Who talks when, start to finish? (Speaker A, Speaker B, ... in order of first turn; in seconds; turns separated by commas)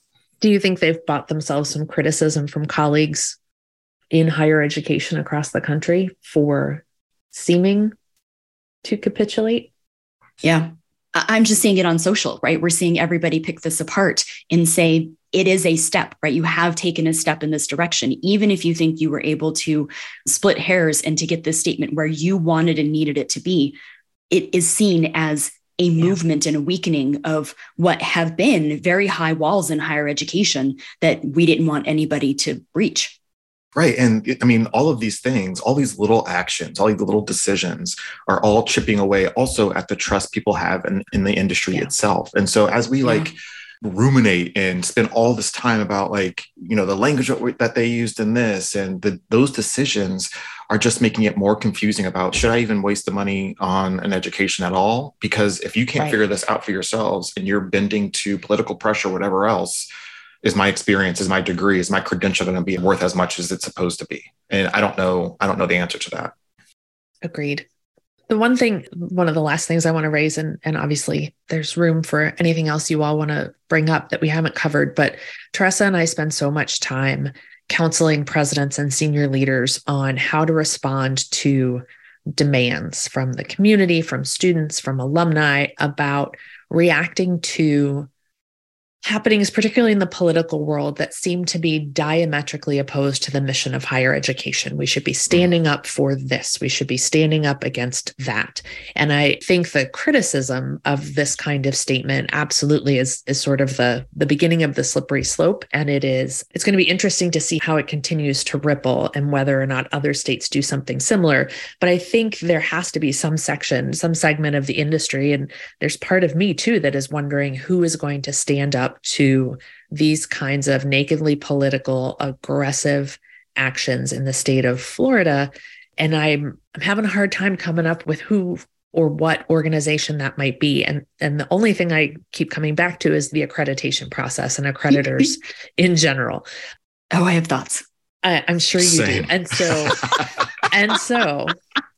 Speaker A: 0.4-3.4, Speaker A: 4.1-7.9, Speaker A: 8.8-9.7, Speaker B: 10.4-23.8, Speaker B: 24.3-33.1, Speaker C: 33.7-59.8, Speaker C: 60.4-66.3, Speaker A: 67.2-67.6, Speaker A: 68.3-81.8, Speaker A: 82.4-88.1, Speaker A: 89.0-136.4, Speaker B: 137.1-137.8, Speaker A: 138.2-140.1, Speaker C: 138.8-140.1, Speaker A: 140.6-141.6